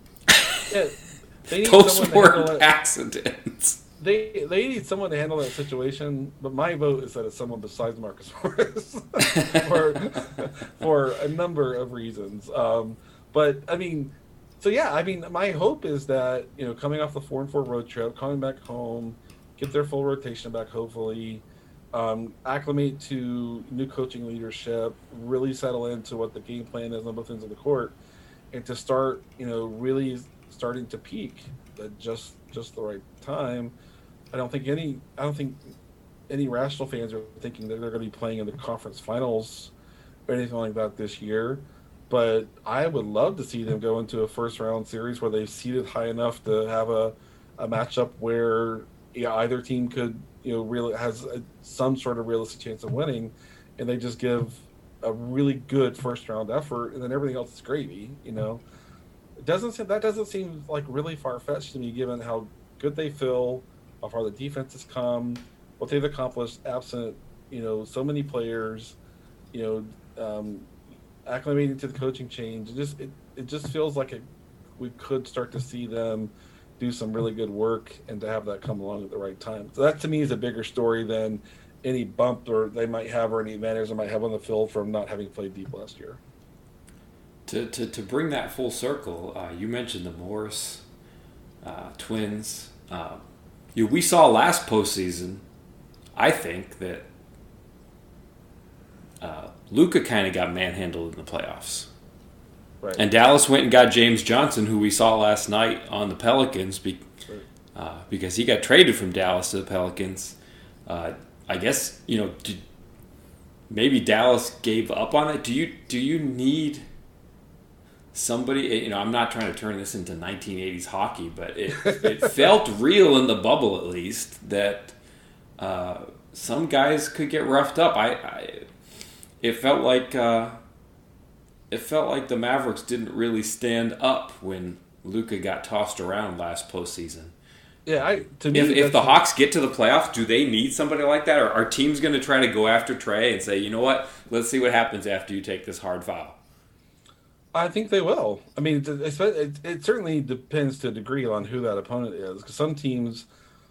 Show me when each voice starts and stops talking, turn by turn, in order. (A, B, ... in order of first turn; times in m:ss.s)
0:00.3-0:00.6 A
0:00.7-0:02.7 B
0:01.5-0:03.8 A
0:04.0-0:28.0 B
0:09.3-0:09.6 A
0:28.5-0:33.8 B
0:34.3-0:35.7 B
0:36.3-0:39.7 B
0:40.3-0:58.6 B
0:59.4-1:09.0 B
1:09.5-1:10.7 B
1:11.2-1:14.2 B
1:14.8-1:26.2 B
1:27.5-1:30.8 A
1:31.6-1:33.2 A
1:33.7-1:35.4 A
1:36.2-1:37.1 A
1:39.2-1:41.9 A
1:43.0-1:47.1 A
1:47.7-1:52.6 A
1:53.7-1:56.8 A
1:58.1-2:05.0 A
2:01.8-2:02.4 B
2:05.6-2:08.7 A
2:09.4-2:10.6 A
2:11.7-2:17.3 A
2:17.8-2:19.2 B
2:18.5-2:26.4 A
2:27.5-2:33.3 B